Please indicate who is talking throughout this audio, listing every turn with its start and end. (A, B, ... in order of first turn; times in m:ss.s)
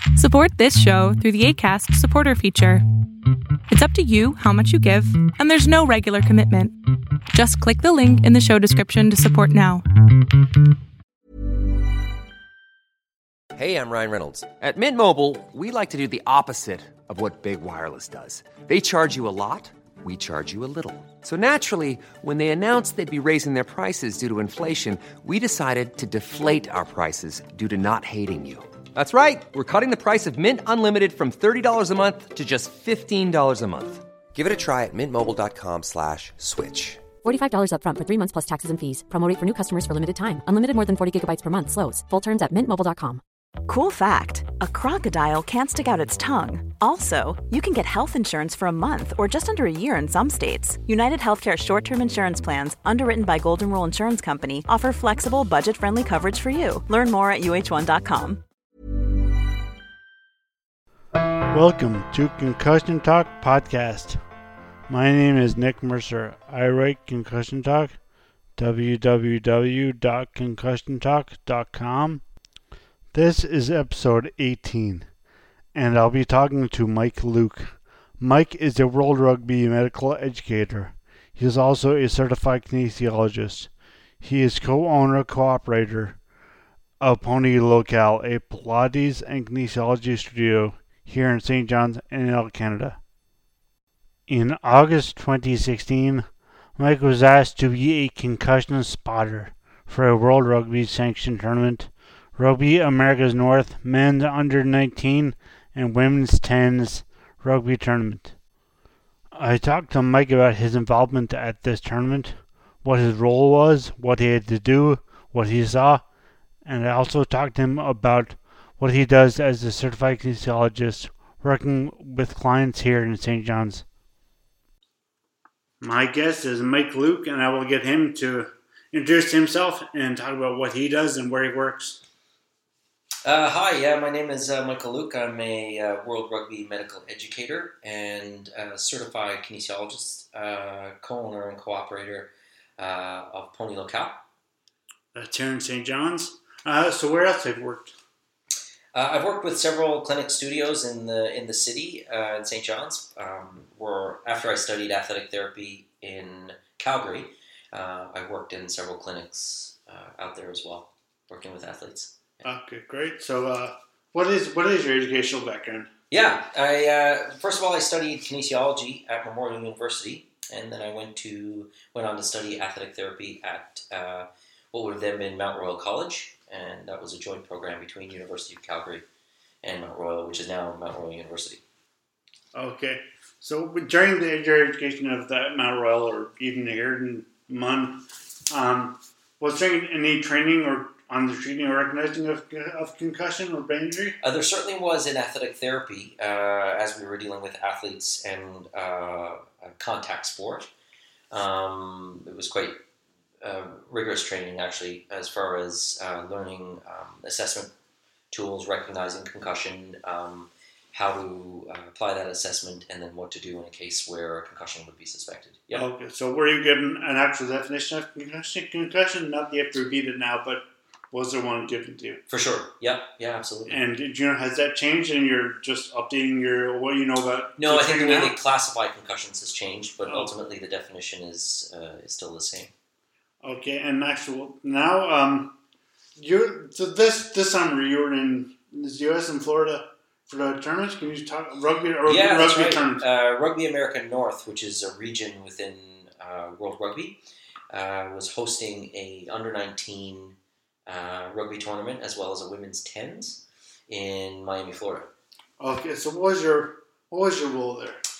0:00.2-0:02.8 A
0:03.7-0:06.8 A
0:07.3-0:09.8 A
0:13.6-0:37.0 B
0:37.2-0:43.2 C
0:43.7-0:58.4 D
1:01.5-1:04.2 E
1:04.9-1:08.0 E
1:08.6-1:12.3 E
1:13.1-1:15.1 E
1:15.7-1:26.2 E
1:27.0-1:33.0 E
1:34.3-1:48.4 E
1:49.3-1:56.0 E
1:56.6-2:03.8 E
2:05.8-2:12.0 E
2:13.2-2:24.2 F
2:25.1-2:27.9 E
2:29.0-2:42.5 F
2:42.4-2:45.9 E
2:46.1-2:59.0 F
2:59.6-3:01.6 F
3:02.5-3:14.2 E
3:14.2-3:20.7 F
3:21.3-3:22.8 F
3:23.4-3:27.7 F
3:28.3-3:35.9 F
3:35.7-3:42.2 E
3:42.3-3:43.8 F
3:43.7-3:48.4 E
3:47.6-3:52.7 F
3:50.0-3:50.3 E
3:53.4-3:55.6 E
3:56.2-4:03.0 E
4:02.1-4:07.2 F
4:07.7-4:10.4 F
4:10.9-4:15.1 F
4:15.6-4:18.0 E